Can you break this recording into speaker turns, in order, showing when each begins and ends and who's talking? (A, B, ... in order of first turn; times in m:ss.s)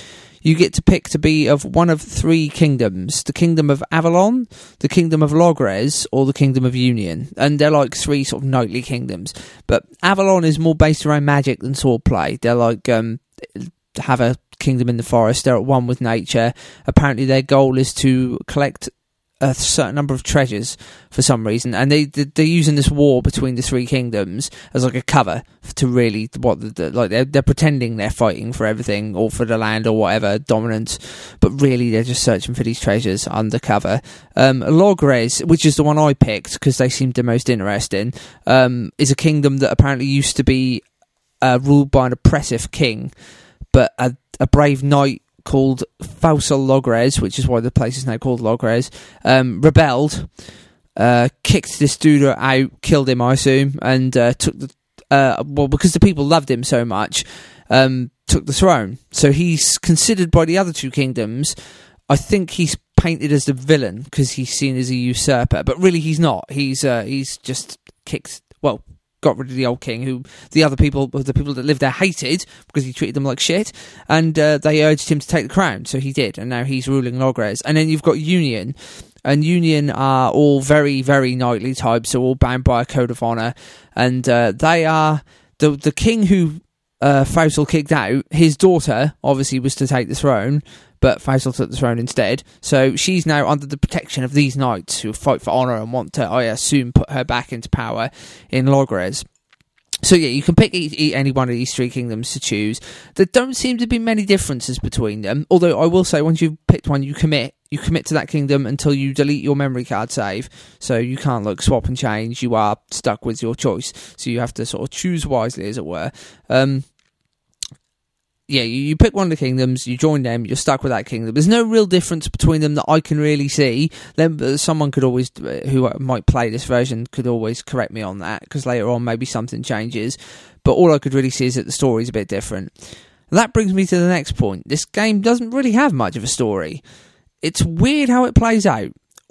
0:00.4-0:40.8 A
0:41.4-0:43.1 A
0:43.7-0:50.3 A
0:51.0-1:01.5 A
1:02.1-1:39.2 A
1:40.0-1:56.9 A
1:58.5-2:12.7 A
2:13.3-2:16.8 A
2:17.4-2:18.9 A